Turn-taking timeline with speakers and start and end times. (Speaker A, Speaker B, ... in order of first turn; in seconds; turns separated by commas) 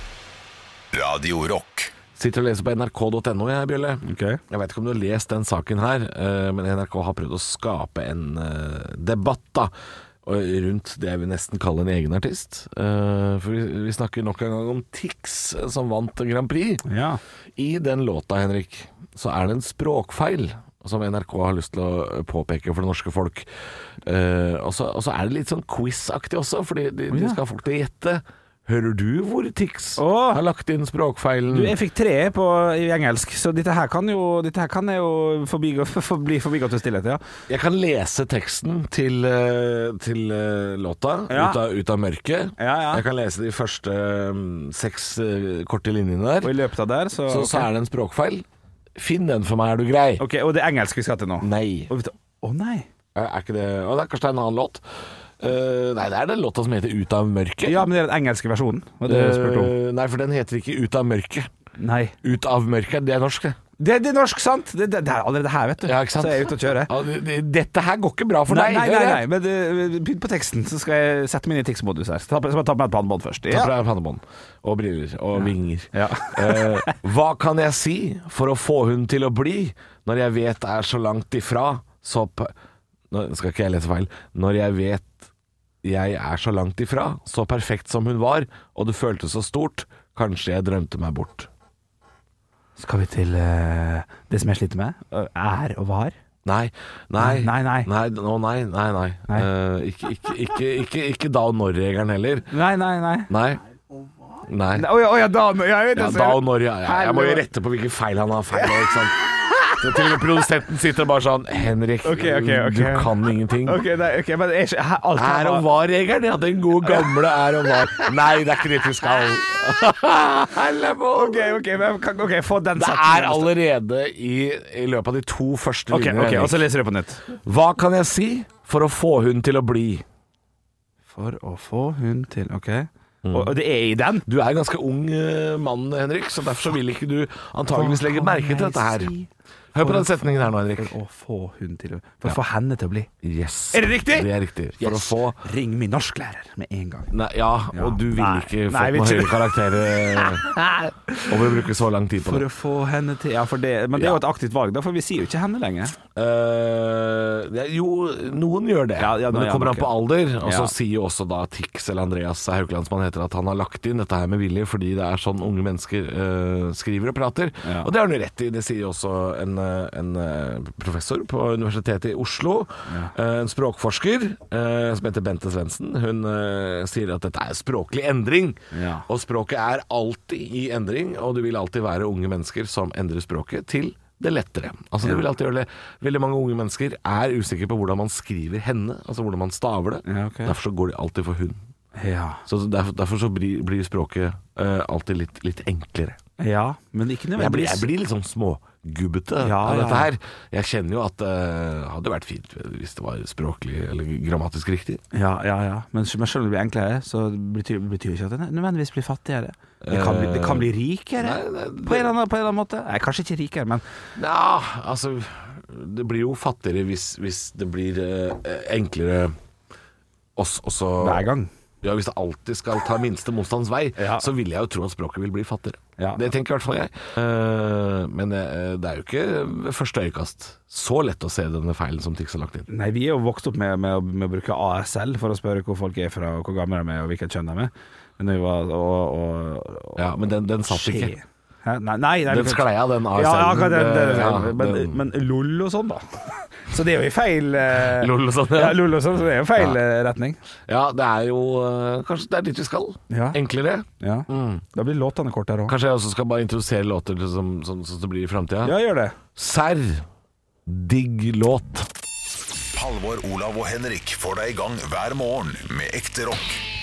Speaker A: 0.9-1.9, Speaker B: 2.2-9.7, Speaker C: 4.0-4.4, Speaker B: 10.2-16.8, Speaker C: 16.9-17.2, Speaker B: 17.6-23.5, Speaker B: 24.0-31.8, Speaker C: 27.1-27.4, Speaker C: 30.0-30.4, Speaker C: 31.5-37.2, Speaker B: 37.5-46.6, Speaker C: 41.3-41.6, Speaker C: 42.6-43.0, Speaker C: 46.4-47.7, Speaker B: 47.3-48.5, Speaker B: 49.0-50.2, Speaker C: 50.2-52.9, Speaker B: 51.4-51.9, Speaker B: 53.1-54.8, Speaker B: 55.4-57.9, Speaker C: 57.6-59.7, Speaker B: 59.1-61.5, Speaker C: 61.8-62.1, Speaker B: 62.2-63.6, Speaker C: 63.8-66.9, Speaker B: 65.8-69.2, Speaker C: 68.5-73.7, Speaker B: 73.5-82.5, Speaker C: 75.4-77.0, Speaker B: 83.1-85.3, Speaker B: 85.8-91.5, Speaker C: 92.8-96.2, Speaker B: 96.5-102.5, Speaker C: 97.2-97.9, Speaker C: 102.5-103.3, Speaker B: 103.3-103.6, Speaker B: 104.5-104.9, Speaker C: 104.8-107.4, Speaker B: 105.9-109.2, Speaker C: 108.6-110.2, Speaker B: 109.7-113.8, Speaker C: 112.0-115.7, Speaker B: 115.1-121.6, Speaker C: 116.8-118.1, Speaker C: 121.1-123.5, Speaker B: 122.8-126.6, Speaker C: 125.9-127.2, Speaker B: 127.3-130.0, Speaker C: 131.1-134.3, Speaker B: 133.2-133.6, Speaker B: 134.3-139.1, Speaker C: 137.7-143.1, Speaker B: 139.7-140.9, Speaker B: 143.2-145.4, Speaker C: 143.7-147.1, Speaker B: 147.1-150.5, Speaker C: 147.7-151.3, Speaker B: 151.3-152.5, Speaker C: 152.2-156.0, Speaker B: 153.9-154.2, Speaker B: 156.2-191.6, Speaker C: 159.0-160.7, Speaker C: 167.6-167.9, Speaker C: 172.9-173.1, Speaker C: 178.7-179.1, Speaker C: 190.1-190.6, Speaker C: 192.0-192.4, Speaker B: 192.5-196.2, Speaker C: 196.4-197.9, Speaker B: 197.3-205.0, Speaker C: 199.4-200.1, Speaker C: 205.1-213.8, Speaker B: 209.8-212.1, Speaker B: 214.2-219.4, Speaker B: 220.4-221.3, Speaker C: 221.0-221.5, Speaker B: 221.8-232.7, Speaker C: 224.0-224.3, Speaker C: 226.0-226.2, Speaker C: 232.7-250.4, Speaker B: 240.0-241.1, Speaker B: 242.3-245.0, Speaker B: 247.7-248.8, Speaker B: 250.7-254.6, Speaker C: 253.1-253.4, Speaker C: 254.0-255.8, Speaker B: 255.7-258.8, Speaker C: 258.6-259.2, Speaker B: 259.4-260.1, Speaker B: 260.7-261.9, Speaker A: 262.7-266.6